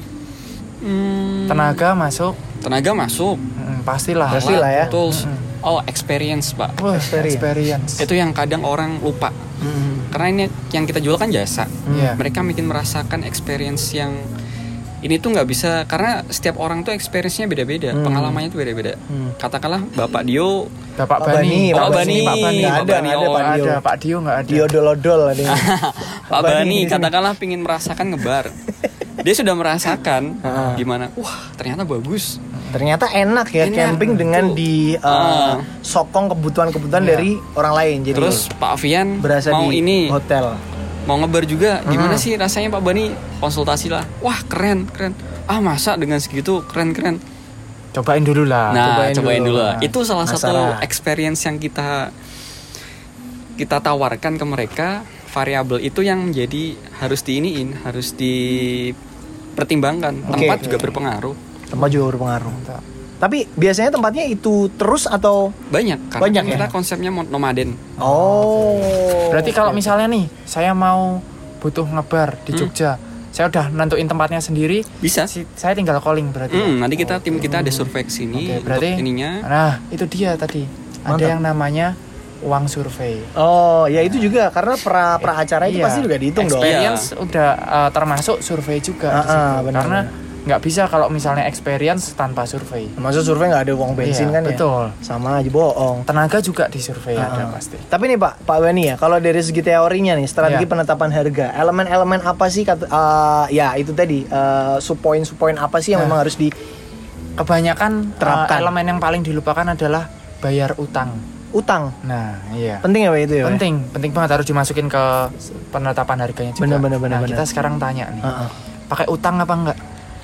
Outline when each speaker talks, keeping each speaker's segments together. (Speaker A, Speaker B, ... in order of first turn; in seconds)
Speaker A: 0.8-1.8, 2.6-3.4, 4.3-6.8, 8.0-9.3, 10.1-14.2, 15.0-20.7, 21.7-23.5, 25.5-28.6, 29.2-32.4, 33.6-35.7, 38.1-40.1, 41.1-47.2, 48.7-52.1, 53.6-59.0, 59.6-61.4, 65.7-67.8, 75.0-75.3, 76.5-79.4, 86.5-87.1
Speaker B: 1.5-2.4, 3.6-5.5, 6.8-8.1, 11.9-12.2, 21.0-24.7, 32.5-32.8, 34.0-34.2, 36.9-37.3, 38.1-38.4, 47.9-49.9, 60.2-61.0, 61.8-62.8, 68.0-83.3, 85.2-92.9, 94.0-94.9, 96.1-97.8, 107.4-111.2, 112.0-112.9, 113.4-118.3, 118.9-119.8
Speaker C: 4.3-4.9, 6.9-7.5, 9.6-10.1, 11.9-12.1, 17.9-18.4, 19.1-19.4, 21.2-23.8, 24.5-25.7, 26.3-27.1, 30.4-30.9, 32.7-38.4, 39.2-40.6, 41.9-42.3, 48.9-49.7, 50.2-50.9, 60.3-60.6, 61.7-62.6, 63.2-65.5, 66.2-66.7, 68.0-69.9, 81.1-81.3, 83.4-86.8, 89.1-90.1, 93.0-96.1, 97.2-106.5, 108.2-108.7, 111.5-111.9, 112.8-113.6, 116.6-117.4, 118.2-118.5